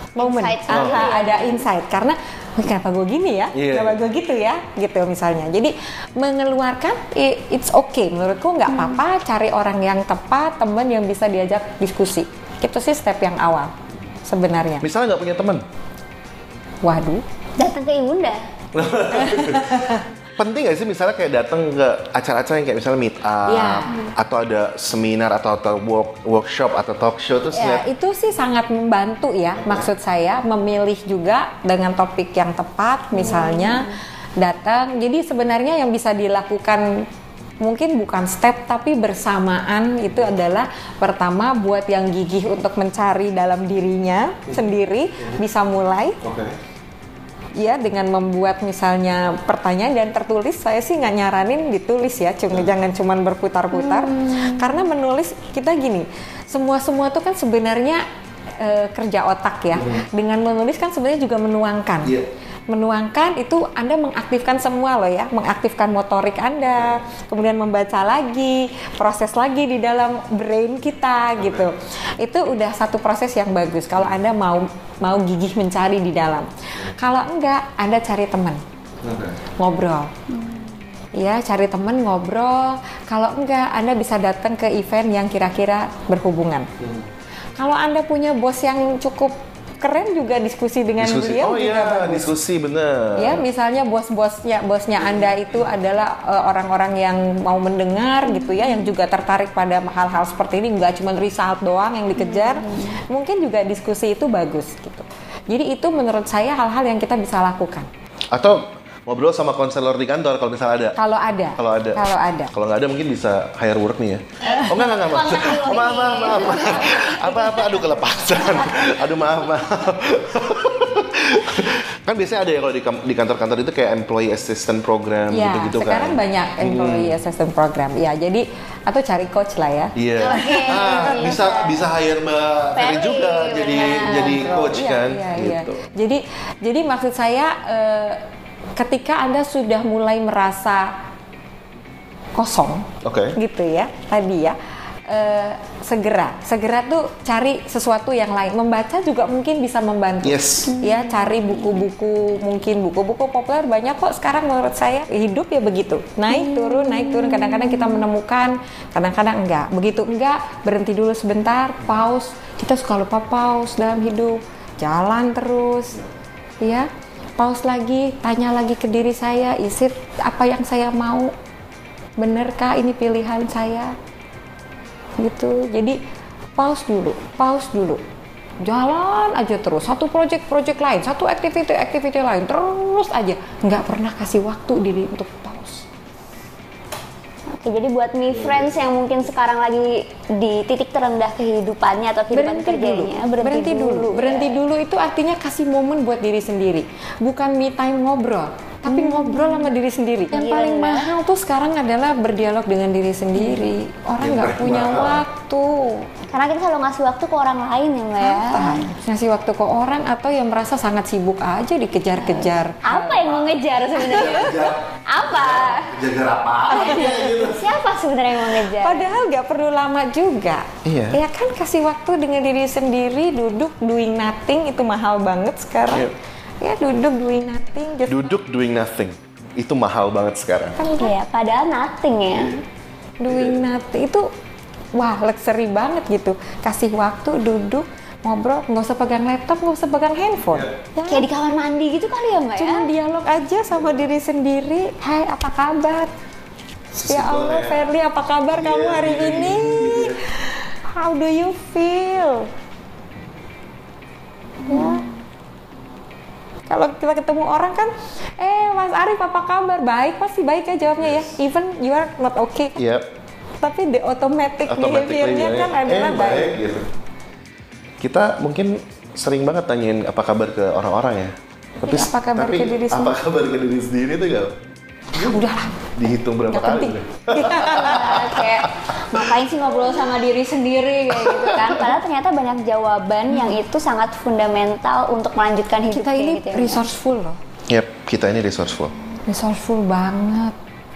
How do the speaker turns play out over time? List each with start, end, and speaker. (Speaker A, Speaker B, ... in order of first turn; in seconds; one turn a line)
Speaker A: 0.2-13.7
Speaker B: 0.2-1.6
Speaker C: 0.7-1.1
Speaker C: 3.5-4.0
Speaker B: 8.7-9.0
Speaker A: 14.2-14.9
Speaker C: 14.8-15.6
Speaker A: 16.8-17.2
Speaker B: 17.6-18.5
Speaker C: 18.7-27.8
Speaker A: 19.2-20.0
Speaker A: 23.5-24.0
Speaker A: 27.5-37.0
Speaker C: 29.6-29.9
Speaker B: 33.2-34.0
Speaker A: 37.6-46.2
Speaker C: 46.2-46.6
Speaker A: 47.6-58.0
Speaker B: 53.7-54.6
Speaker A: 58.6-62.2
Speaker C: 59.8-60.0
Speaker A: 62.7-78.6
Speaker C: 71.4-71.7
Speaker C: 79.0-79.4
Speaker A: 79.6-80.1
Speaker B: 80.3-80.8
Speaker A: 81.2-86.7
Speaker C: 86.8-87.1
Speaker A: 87.6-92.3
Speaker C: 91.0-93.4
Speaker A: 93.2-107.9
Speaker B: 98.4-98.8
Speaker B: 102.2-102.9
Speaker C: 108.3-111.0
Speaker A: 111.0-112.5
Speaker C: 111.6-127.2
Speaker B: 114.4-117.9
Speaker A: 125.3-131.3
Speaker C: 130.0-135.8
Speaker B: 130.2-131.9
Speaker B: 132.8-134.7
Speaker A: 134.0-138.2
Speaker A: 138.8-140.9
Speaker A: 142.3-166.0
Speaker C: 143.0-143.4
Speaker C: 150.2-150.7
Speaker B: 150.7-151.8
Speaker B: 156.3-158.0
Speaker A: 166.6-171.3
Speaker A: 172.2-173.9
Speaker A: 175.2-176.0
Speaker A: 176.6-178.0
Speaker A: 178.6-185.8
Speaker B: 187.5-194.6
Speaker A: 192.3-206.1
Speaker B: 198.9-199.7
Speaker B: 200.3-201.1
Speaker B: 203.4-203.7
Speaker C: 204.2-205.2
Speaker B: 206.3-208.9
Speaker A: 208.2-213.5
Speaker B: 212.2-216.0
Speaker C: 214.0-217.7
Speaker A: 214.1-214.4
Speaker A: 216.7-217.2
Speaker B: 216.7-219.2
Speaker A: 218.8-226.1
Speaker C: 220.8-221.2
Speaker A: 226.6-228.4
Speaker C: 228.1-230.8
Speaker A: 230.8-231.1
Speaker B: 230.9-232.6
Speaker A: 233.2-234.3
Speaker C: 233.3-233.6
Speaker A: 234.9-241.3
Speaker C: 240.4-240.8
Speaker B: 241.1-242.9
Speaker A: 242.6-246.1
Speaker C: 246.9-247.8
Speaker A: 247.1-250.2
Speaker C: 248.5-250.2
Speaker A: 250.9-252.5
Speaker B: 254.6-255.2
Speaker A: 254.7-255.0
Speaker A: 256.7-262.8
Speaker C: 261.0-261.3
Speaker C: 262.8-263.1
Speaker A: 263.6-266.5
Speaker C: 264.7-266.9
Speaker C: 268.0-274.6
Speaker A: 271.8-273.2
Speaker C: 275.1-279.3
Speaker A: 275.1-275.9
Speaker A: 276.5-278.1
Speaker B: 277.5-286.8
Speaker C: 281.1-281.8
Speaker A: 283.3-283.6
Speaker A: 285.9-287.4
Speaker C: 287.7-288.9
Speaker A: 289.3-290.6